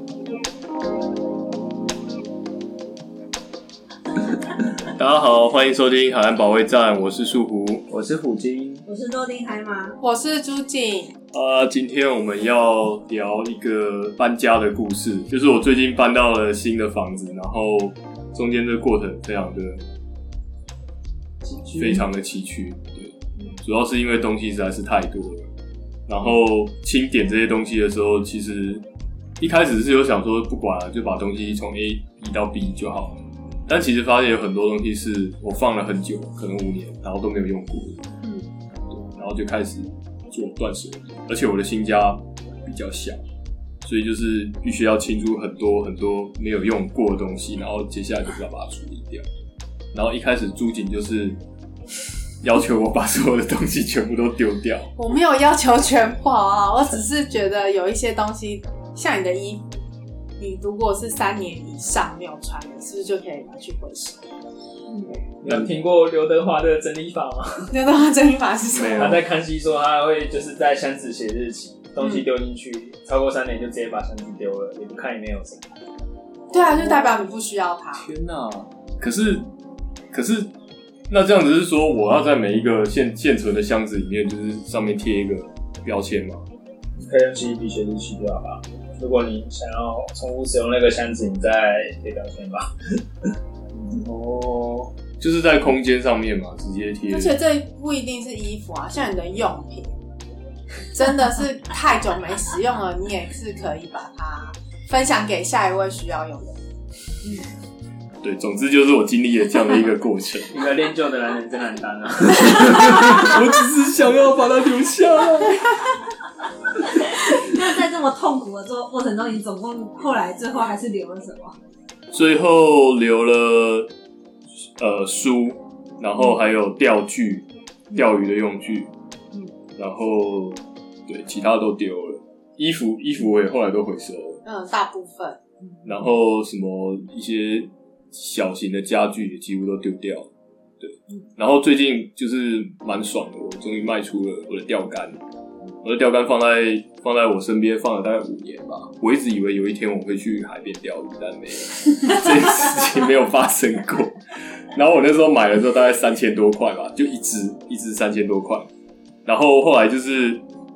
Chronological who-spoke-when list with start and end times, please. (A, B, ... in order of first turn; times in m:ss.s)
0:04.9-0:07.9 A
0:07.9-0:08.8 B
0:08.8-0:10.0 C
0:10.0-0:11.1 D
0:11.3-0:19.8 A
0:21.4-0:22.0 B
0:21.8-0:25.5 A
0:26.1-0:28.8 A
0:29.4-0:33.2 A
0:33.7-0:38.0 A
0:38.2-0:38.5 D
0:38.9-0:43.2 A
0:43.8-0:49.2 A
0:49.9-0:51.4 A
0:52.4-0:54.9 A
0:55.0-0:59.6 D
1:00.4-1:04.2 D
1:05.4-1:07.7 B
1:07.7-1:09.2 D
1:08.7-1:09.2 A
1:08.9-1:15.8 B
1:12.0-1:12.2 D
1:16.5-1:18.0 D
1:18.0-1:19.5 A
1:20.1-1:20.5 A
1:21.1-1:26.4 A
1:26.9-1:33.3 B
1:34.0-1:34.9 B
1:35.2-1:37.4 A
1:37.1-1:39.9 D
1:40.9-1:46.6 D
1:48.2-1:50.5 A
1:50.5-1:53.4 B
1:52.9-1:55.6 A
1:57.0-2:01.6 C
2:02.1-2:03.9 A
2:04.8-2:08.9 A
2:09.8-2:14.4 A
2:14.4-2:15.4 D
2:15.8-2:20.3 A
2:20.8-2:25.2 A
2:25.8-2:34.2 A
2:34.7-2:38.7 A
2:39.2-2:40.4 A